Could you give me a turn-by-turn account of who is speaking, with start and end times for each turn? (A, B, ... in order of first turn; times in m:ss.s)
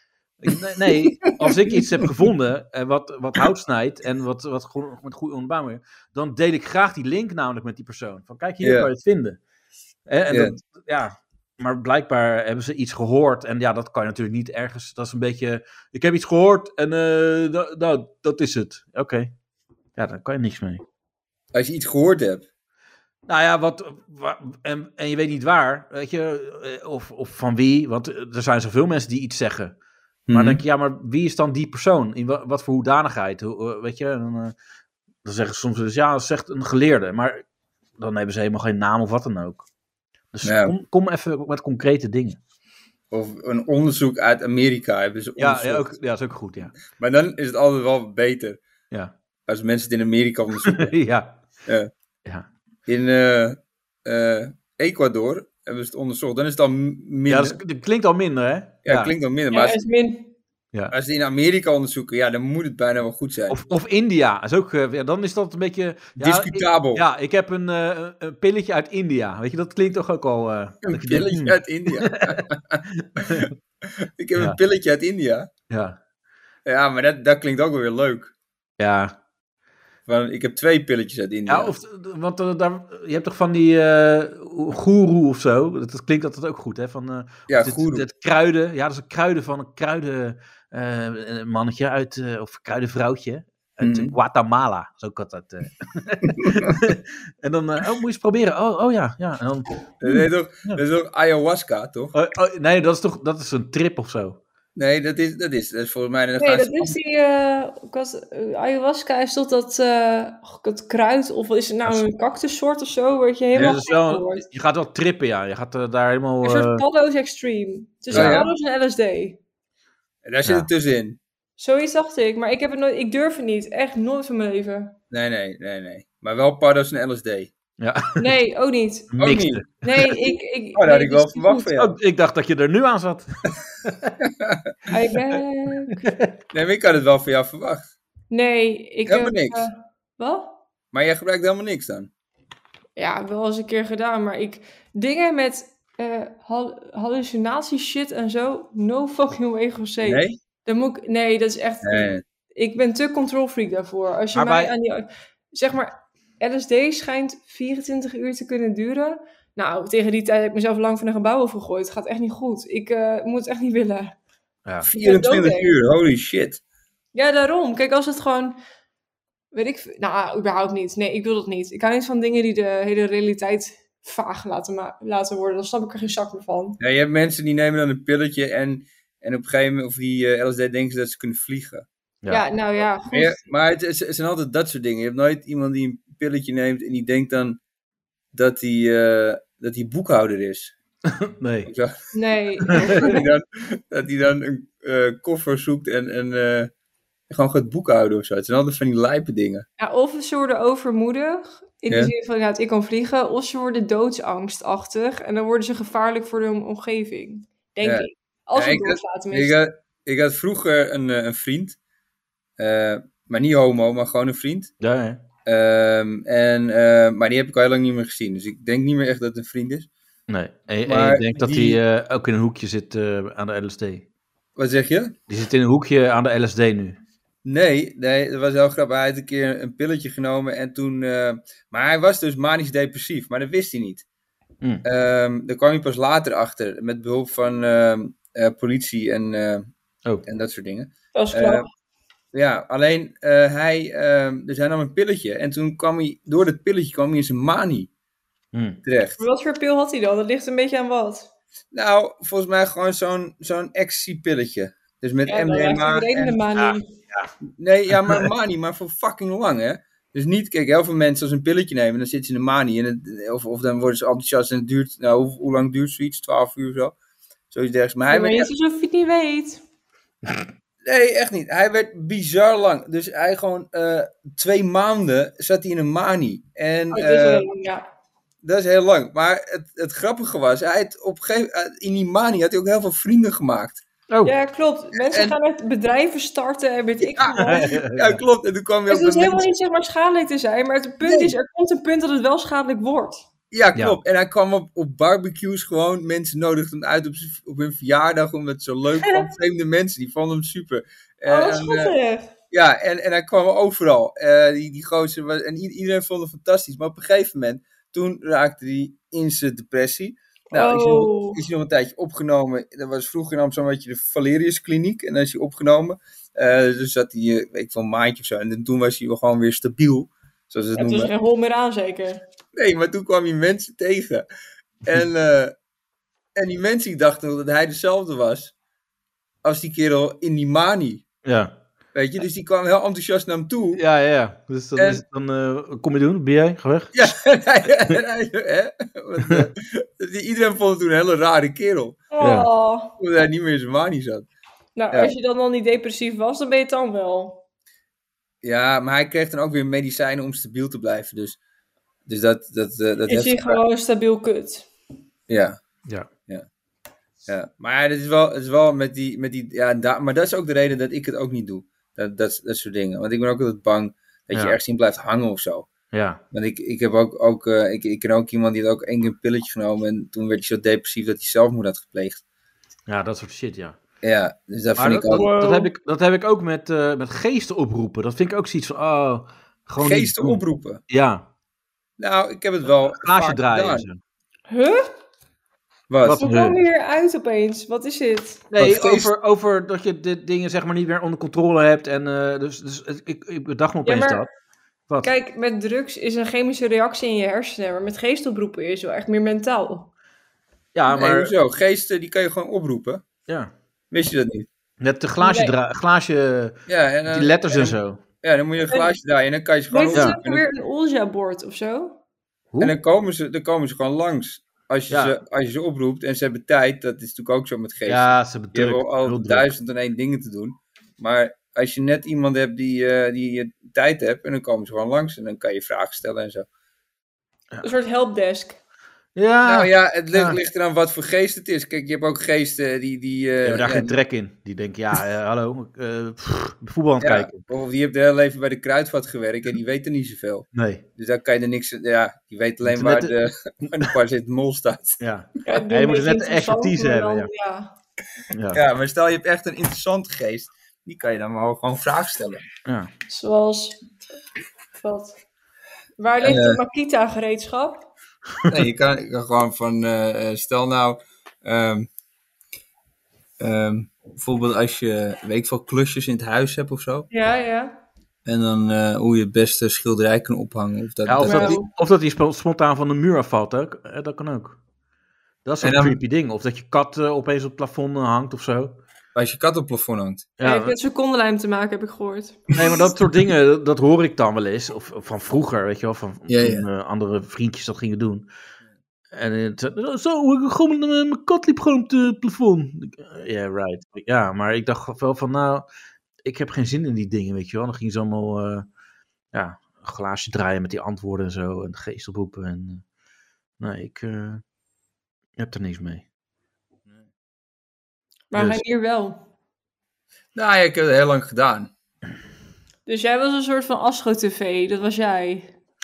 0:00.4-0:09.4 A
0:08.6-0:08.9 B
0:10.1-0:19.3 A
0:10.3-0:10.6 B
0:20.0-0:20.8 A
0:21.5-0:22.4 B
0:23.3-0:29.8 A
0:30.3-0:30.6 B
0:30.3-0:34.5 A
0:35.2-0:37.4 A
0:38.0-0:39.6 A
0:40.3-0:42.4 A
0:40.4-0:40.7 B
0:43.1-0:46.0 B
0:45.4-0:46.7 A
0:46.8-0:48.6 B
0:49.5-0:50.9 B
0:50.7-0:51.4 A
0:52.9-0:57.6 B
0:57.3-0:59.1 A
0:58.8-0:59.8 B
0:59.5-1:00.4 C
1:00.9-1:03.6 B
1:03.5-1:13.5 A
1:06.2-1:07.0 B
1:10.9-1:13.4 B
1:14.0-1:15.5 B
1:15.7-1:16.0 A
1:16.7-1:18.3 B
1:18.8-1:19.1 A
1:20.1-1:21.7 B
1:21.5-1:40.8 A
1:27.5-1:28.0 B
1:33.8-1:34.1 B
1:40.0-1:42.1 B
1:42.1-1:44.4 A
1:44.8-1:47.0 B
1:46.4-1:54.4 C
1:53.6-1:56.8 A
1:56.4-1:59.4 C
1:58.1-1:58.5 B
1:58.1-1:58.4 A
2:00.2-2:01.2 B
2:01.6-2:05.0 C
2:05.1-2:07.5 B
2:07.8-2:08.2 A
2:08.2-2:09.1 C
2:09.1-2:09.6 A
2:09.2-2:09.6 B
2:09.8-2:11.7 C
2:10.7-2:11.9 B
2:11.8-2:13.3 A
2:13.8-2:14.1 A
2:14.2-2:14.6 B
2:14.9-2:16.1 C
2:16.0-2:16.3 A
2:16.5-2:17.8 B
2:18.3-2:20.6 C
2:19.0-2:19.7 B
2:20.9-2:22.1 B
2:23.0-2:44.1 C
2:30.0-2:30.4 B
2:31.8-2:32.2 B
2:34.3-2:34.7 A
2:44.8-2:46.6 B
2:45.0-2:45.8 C
2:47.1-2:48.6 C
2:49.5-2:56.8 C
2:56.8-3:01.9 B
3:02.3-3:03.4 C
3:03.1-3:07.6 B
3:08.3-3:10.7 B
3:11.1-3:11.7 A
3:11.7-3:12.0 B
3:12.1-3:13.3 C
3:12.7-3:16.7 B
3:17.3-3:19.6 B
3:19.8-3:29.6 C
3:27.8-3:31.8 B
3:32.6-3:34.7 B
3:34.8-3:35.2 A
3:35.4-3:39.9 B
3:40.3-3:44.0 A
3:40.9-3:41.8 B
3:44.6-3:45.2 B
3:45.3-3:47.0 A
3:47.4-3:54.0 B
3:54.8-3:59.7 B
4:00.2-4:01.7 B
4:01.1-4:01.7 C
4:02.3-4:07.9 B
4:08.5-4:08.8 A
4:08.8-4:09.2 B
4:09.2-4:11.3 C
4:11.7-4:16.4 B
4:15.3-4:16.9 C
4:16.6-4:17.3 A
4:17.6-4:27.0 B
4:17.9-4:18.3 A
4:27.5-4:28.5 B
4:28.1-4:29.6 C
4:30.8-4:37.5 B
4:36.9-4:37.8 C
4:38.4-4:43.8 B
4:44.2-4:47.7 C
4:45.0-4:45.4 B
4:47.0-4:49.5 B
4:47.6-4:48.2 A
4:48.9-4:53.2 C
4:51.0-4:51.3 B
4:53.5-5:02.0 B
5:01.3-5:02.3 C
5:02.5-5:21.1 B
5:10.5-5:11.4 C
5:20.8-5:22.2 C
5:22.6-5:24.3 B
5:24.8-5:25.5 B
5:26.4-5:28.5 B
5:29.4-5:31.0 B
5:31.2-5:31.6 A
5:31.9-5:33.8 B
5:33.7-5:37.1 A
5:34.8-5:35.0 B
5:36.9-5:42.0 B
5:42.1-5:42.9 C
5:42.2-5:42.5 A
5:43.0-5:44.3 B
5:44.8-5:47.4 C
5:48.4-5:51.4 B
5:52.1-5:53.6 B
5:53.1-5:54.7 C
5:55.3-5:55.6 B
5:57.3-6:05.7 B
6:05.9-6:06.2 A
6:06.3-6:12.2 B
6:12.9-6:13.8 A
6:14.0-6:15.3 B
6:14.8-6:21.3 A
6:15.1-6:15.7 C
6:19.8-6:20.8 B
6:22.0-6:23.9 B
6:22.9-6:24.0 A
6:24.5-6:24.9 C
6:25.9-6:26.2 B
6:26.0-6:26.6 A
6:26.2-6:28.4 C
6:28.5-6:34.3 A
6:28.6-6:29.1 B
6:33.8-6:34.2 C
6:35.0-6:39.9 C
6:40.7-6:41.3 A
6:40.9-6:43.0 B
6:43.9-6:44.5 B
6:44.8-6:48.0 A
6:45.2-6:45.5 C
6:46.7-6:50.4 B
6:49.7-6:52.0 C
6:52.6-7:06.4 B
6:54.9-6:55.2 A
6:57.9-6:59.5 A
7:07.6-7:08.6 C
7:09.2-7:10.4 A
7:09.4-7:13.9 B
7:13.4-7:17.4 A
7:17.0-7:25.0 B
7:20.5-7:20.8 A
7:22.6-7:23.1 A
7:25.0-7:27.3 A
7:25.5-7:27.7 C
7:28.3-7:28.6 A
7:28.5-7:32.4 B
7:32.7-7:32.9 A
7:33.1-7:33.8 C
7:34.7-7:35.2 C
7:36.0-7:37.9 C
7:36.2-7:36.6 B
7:38.5-7:41.9 B
7:43.4-7:47.1 B
7:47.1-7:47.7 C
7:48.3-7:51.6 B
7:51.0-7:54.6 A
7:51.2-7:51.7 C
7:55.4-7:58.8 A
7:55.6-7:56.0 B
7:59.1-8:00.3 B
8:00.4-8:00.7 A
8:00.4-8:02.4 C
8:02.5-8:08.3 A
8:06.3-8:06.7 B
8:09.1-8:15.7 A
8:16.2-8:18.6 A
8:19.3-8:22.8 A
8:23.6-8:24.4 A
8:25.4-8:26.0 A
8:28.3-8:29.2 C
8:28.4-8:28.6 A
8:30.3-8:31.7 B
8:32.9-8:35.5 C